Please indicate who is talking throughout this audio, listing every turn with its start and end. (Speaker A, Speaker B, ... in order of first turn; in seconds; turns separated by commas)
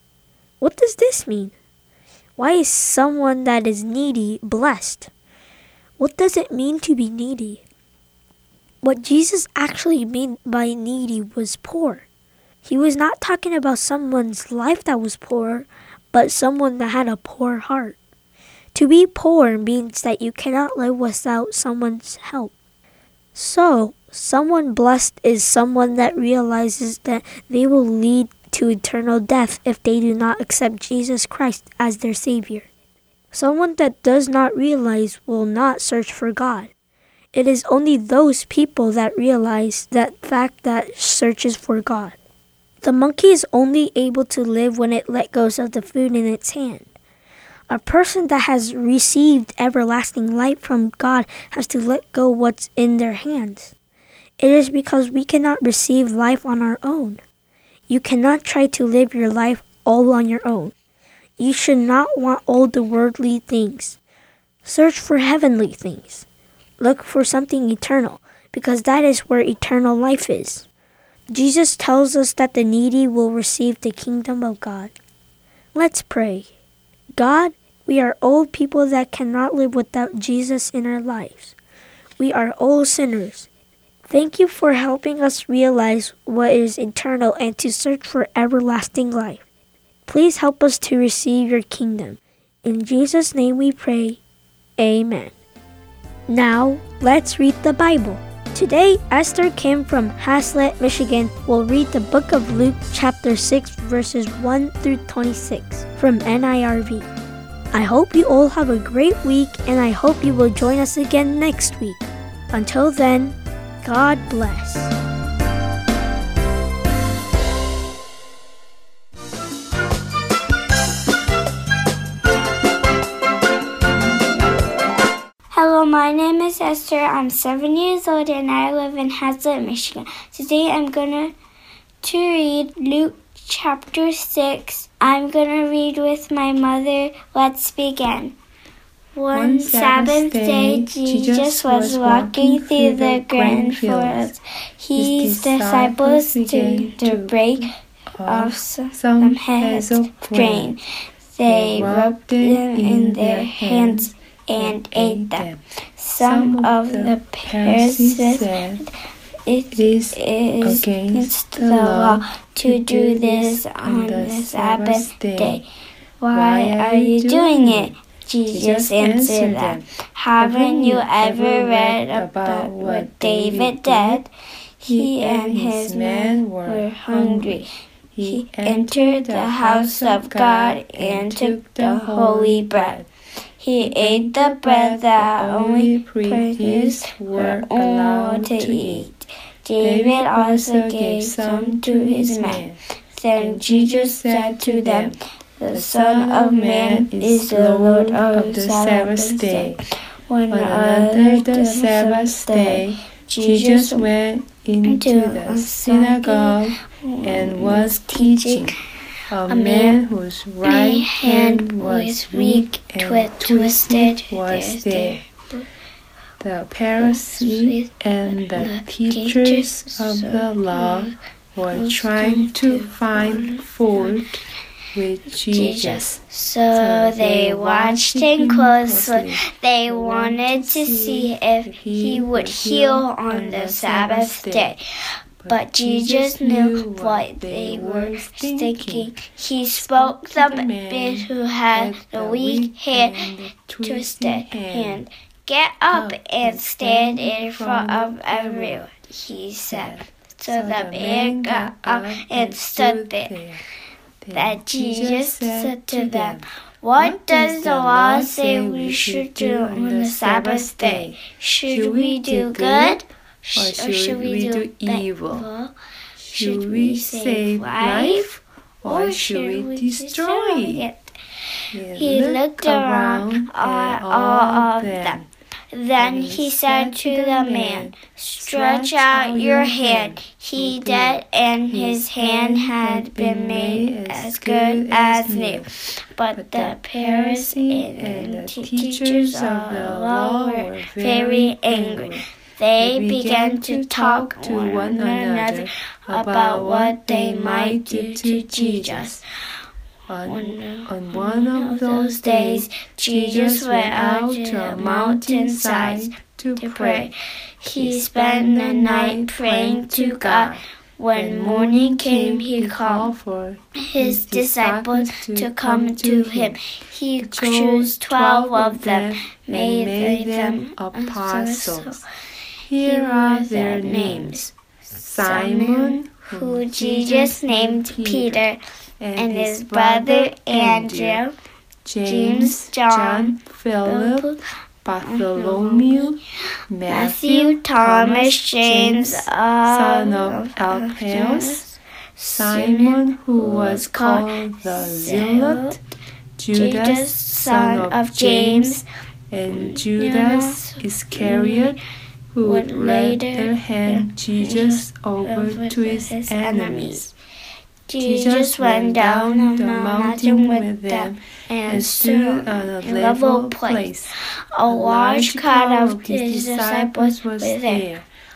Speaker A: 0.6-1.5, Speaker A: 2.4-5.1, Speaker A: 6.0-7.6, Speaker A: 8.8-12.1, Speaker A: 12.6-18.0, Speaker A: 18.7-22.5, Speaker A: 23.3-32.7, Speaker A: 33.3-36.7, Speaker A: 37.3-42.2, Speaker A: 42.8-46.9, Speaker A: 47.7-53.7, Speaker A: 54.4-57.2, Speaker A: 57.9-60.7, Speaker A: 61.4-64.0, Speaker A: 64.6-66.2, Speaker A: 66.8-70.7, Speaker A: 71.3-74.9, Speaker A: 75.7-76.5, Speaker A: 77.1-81.5, Speaker A: 82.2-83.5, Speaker A: 84.1-89.4, Speaker A: 90.1-94.2, Speaker A: 94.8-95.3, Speaker A: 96.3-107.1, Speaker A: 107.7-114.9, Speaker B: 125.5-131.3, Speaker B: 132.0-138.3, Speaker B: 139.1-147.7, Speaker C: 139.3-144.4, Speaker C: 144.9-150.7, Speaker B: 148.2-150.8, Speaker B: 151.3-158.9, Speaker C: 151.4-155.6, Speaker C: 156.2-158.8, Speaker B: 159.4-165.6, Speaker C: 159.7-165.6, Speaker B: 166.2-174.3, Speaker C: 166.3-168.0, Speaker C: 168.5-174.2, Speaker B: 174.8-177.7, Speaker C: 174.8-183.1, Speaker B: 178.2-183.0, Speaker B: 183.6-204.1, Speaker C: 183.8-189.1, Speaker C: 189.8-192.8, Speaker C: 193.3-195.2, Speaker C: 195.7-199.8, Speaker C: 200.5-208.8, Speaker B: 204.8-208.8, Speaker C: 209.3-215.2, Speaker B: 209.5-210.0, Speaker B: 210.6-215.6, Speaker C: 216.4-234.7, Speaker B: 217.0-221.1, Speaker B: 221.7-224.1, Speaker B: 225.5-234.8, Speaker C: 235.4-245.0, Speaker B: 235.5-253.3, Speaker C: 245.9-248.9, Speaker C: 249.7-253.6, Speaker C: 254.2-263.0, Speaker B: 254.3-265.7, Speaker C: 263.5-265.5, Speaker C: 266.2-270.9, Speaker B: 266.3-268.3, Speaker B: 268.9-271.1, Speaker C: 271.7-275.3, Speaker B: 271.9-275.2, Speaker B: 275.7-299.2, Speaker C: 276.0-285.7, Speaker C: 286.3-292.2, Speaker C: 292.8-299.2, Speaker C: 300.1-307.1, Speaker B: 300.3-313.1, Speaker C: 307.6-310.6, Speaker C: 311.1-316.6, Speaker B: 313.8-322.0, Speaker C: 317.2-322.0, Speaker C: 322.7-328.5, Speaker B: 322.8-324.5, Speaker B: 325.2-328.6, Speaker C: 329.0-331.2, Speaker B: 329.1-331.3, Speaker C: 331.8-341.8, Speaker B: 332.0-334.4, Speaker B: 335.0-336.2, Speaker B: 336.9-341.6, Speaker B: 342.2-345.8, Speaker C: 342.3-345.8, Speaker C: 346.4-348.8, Speaker B: 346.5-348.8, Speaker C: 349.3-351.8, Speaker B: 349.5-351.8, Speaker C: 352.3-357.1, Speaker B: 352.4-357.1, Speaker B: 357.9-363.9, Speaker C: 358.0-364.1, Speaker B: 364.5-367.9, Speaker C: 364.7-368.0